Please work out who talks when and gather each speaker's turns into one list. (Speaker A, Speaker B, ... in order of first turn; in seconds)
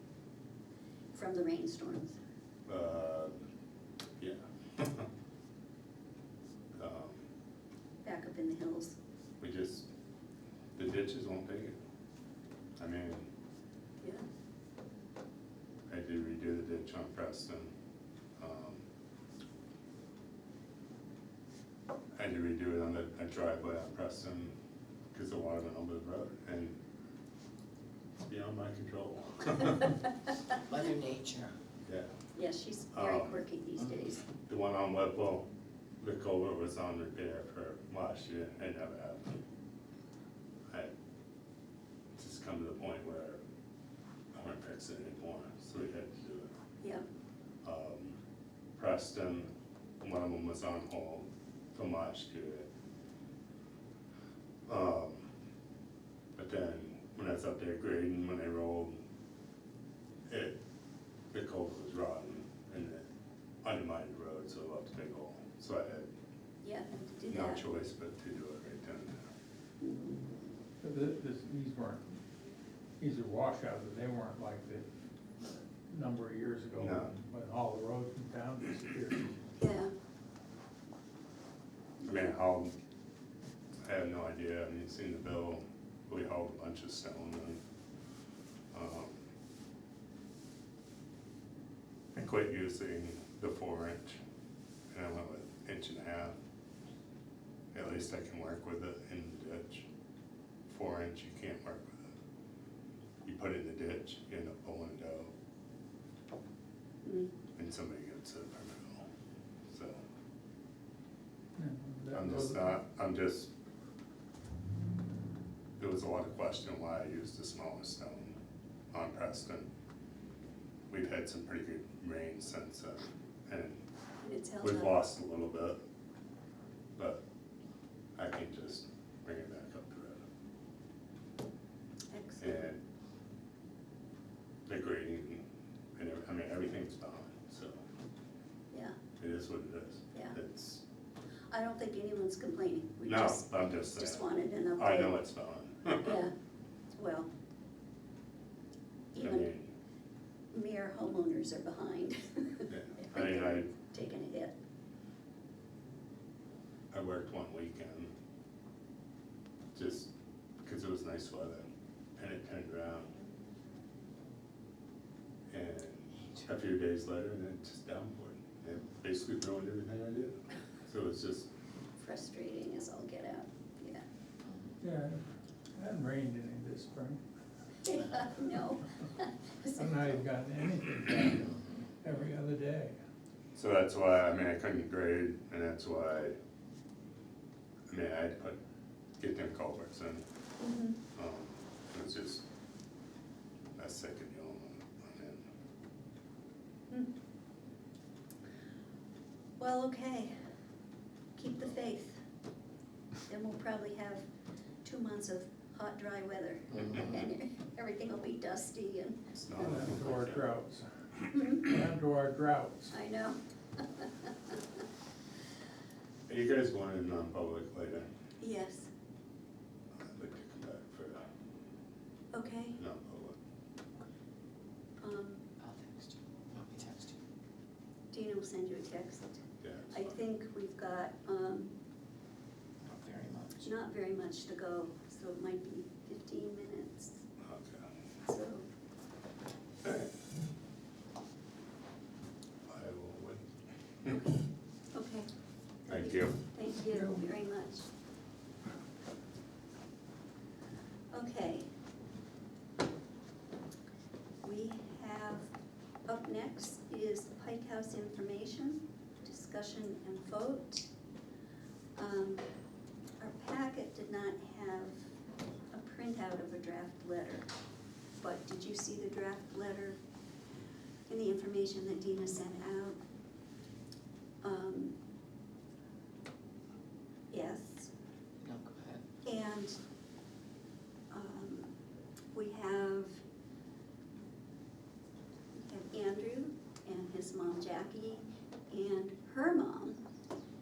Speaker A: 1.1-2.2, 8.0-9.0, 14.0-14.3, 32.3-34.2, 66.6-67.6, 79.6-79.9, 82.0-82.3, 107.0-107.3, 124.2-125.0, 132.1-132.6, 138.7-139.0, 141.5-145.2, 146.0-146.3, 146.9-147.3, 149.1-149.5, 150.5-154.5, 172.0-174.0, 177.8-180.2, 190.6-191.0, 199.6-200.5, 201.3-202.2, 203.3-204.2, 204.8-209.2, 211.3-211.6, 212.9-214.6, 218.4-218.9, 222.3-222.8, 225.0-225.4, 228.1-231.7, 233.6-237.2, 238.2-238.7, 244.1-245.3, 245.9-247.9, 251.1-251.7, 254.4-255.5, 256.1-260.9, 261.9-262.4, 263.2-265.1, 265.7-267.4, 268.2-269.9, 271.1-273.0, 274.4-274.9, 277.3-277.9, 279.2-279.8, 281.1-281.7, 282.3-283.2, 285.6-290.0
Speaker B: 2.6-3.5, 4.2-5.1, 6.7-7.2, 9.4-9.9, 10.7-11.8, 12.8-13.3, 15.9-17.7, 18.4-18.8, 22.1-24.5, 25.1-26.8, 28.2-29.9, 32.9-33.4, 34.5-35.4, 36.0-39.4, 42.1-43.4, 44.3-46.5, 47.6-48.1, 48.8-49.5, 50.0-52.7, 54.6-55.3, 56.4-59.0, 60.3-60.6, 61.3-63.0, 63.6-66.1, 67.3-69.3, 76.8-77.1, 82.0-82.7, 83.8-87.6, 88.7-89.3, 92.1-94.2, 94.9-96.4, 97.7-99.9, 100.7-102.1, 103.2-105.3, 107.5-109.0, 109.7-110.0, 112.1-113.5, 115.8-118.3, 118.9-119.7, 120.9-123.8, 124.6-125.8, 127.0-127.2, 128.2-130.2, 132.4-132.8, 134.7-135.4, 135.9-137.8, 139.2-140.8, 143.1-146.2, 149.2-149.7, 152.7-153.7, 156.9-158.1, 159.7-160.1, 160.6-161.6, 162.2-163.1, 165.5-171.5, 183.5-186.3, 187.9-188.6, 189.2-190.2, 191.1-192.4, 193.8-195.4, 209.3-210.4, 216.3-218.1, 220.0-221.2, 222.8-223.4, 229.6-230.2, 237.4-237.8, 242.7-243.5, 245.9-246.4
Speaker C: 30.7-31.5, 174.4-174.7, 225.6-227.2, 232.8-233.7, 278.4-279.0
Speaker D: 70.8-72.2, 73.0-74.9, 75.9-79.3, 111.6-112.7, 174.8-175.2, 175.8-177.2, 179.8-182.9, 209.6-210.8, 211.5-212.9